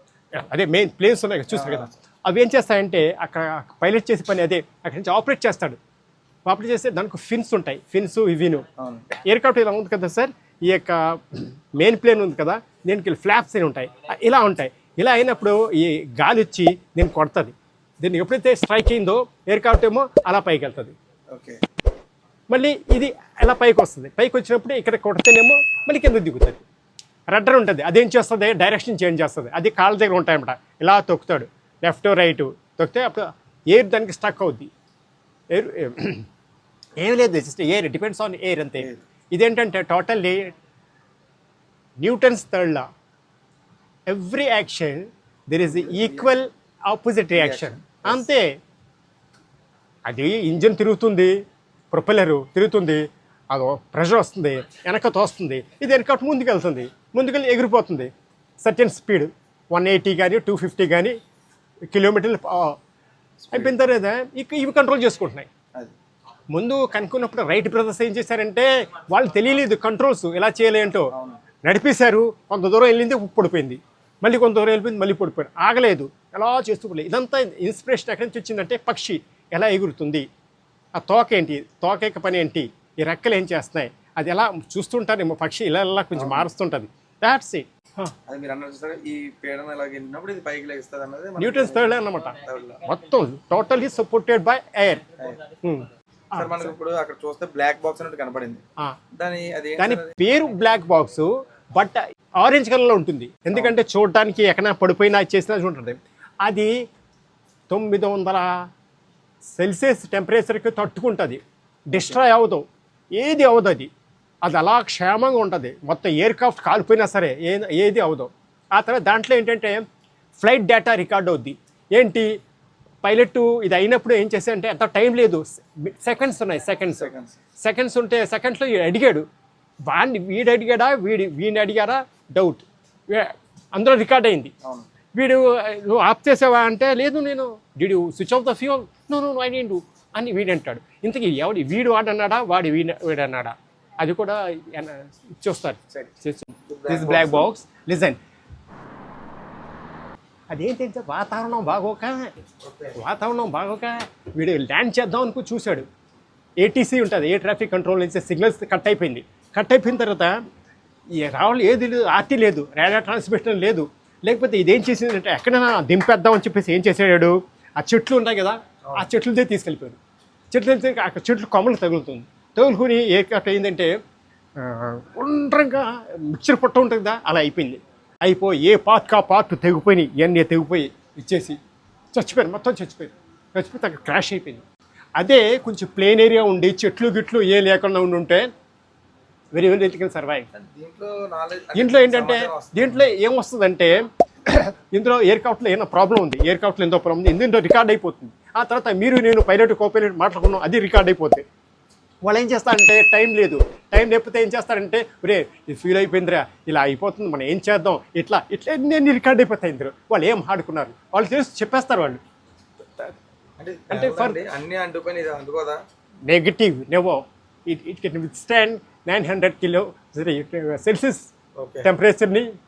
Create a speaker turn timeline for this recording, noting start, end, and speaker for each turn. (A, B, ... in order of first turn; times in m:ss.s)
0:00.4-0:05.8 A
0:01.5-0:01.9 B
0:06.5-0:21.0 A
0:08.8-0:09.1 B
0:21.3-0:21.6 B
0:22.5-0:26.6 A
0:27.3-0:34.7 A
0:35.5-0:36.3 A
0:37.0-0:40.5 A
0:42.0-0:42.9 A
0:44.1-0:48.5 A
0:45.7-0:46.3 B
0:47.4-0:48.3 B
0:50.1-0:51.3 A
0:51.9-1:01.2 A
1:01.9-1:02.8 A
1:03.4-1:03.7 B
1:03.5-1:05.5 A
1:06.5-1:11.1 A
1:11.1-1:11.4 B
1:11.6-1:20.3 A
1:21.0-1:28.1 A
1:26.2-1:26.5 B
1:28.3-1:32.8 B
1:31.4-1:35.0 A
1:35.6-1:36.7 A
1:36.4-1:38.6 B
1:39.2-1:40.2 B
1:39.8-1:46.7 A
1:47.7-1:48.5 A
1:49.6-1:51.4 A
1:51.9-1:52.6 A
1:52.0-1:52.2 B
1:53.2-1:53.9 A
1:54.4-1:59.9 A
2:00.4-2:02.3 A
2:03.0-2:09.3 A
2:07.0-2:07.4 B
2:09.8-2:14.5 A
2:15.2-2:28.2 A
2:26.6-2:27.5 B
2:30.5-2:32.3 A
2:32.6-2:33.0 B
2:33.0-2:35.9 A
2:36.6-2:40.4 A
2:41.2-2:50.0 A
2:50.5-2:54.0 A
2:54.6-3:01.6 A
3:02.1-3:04.6 A
3:05.2-3:08.5 A
3:09.6-3:10.5 A
3:10.5-3:13.1 B
3:11.8-3:21.4 A
3:22.2-3:32.2 A
3:33.6-3:35.8 B
3:33.9-3:34.4 A
3:36.3-3:41.3 A
3:41.6-3:41.9 B
3:41.8-3:42.5 A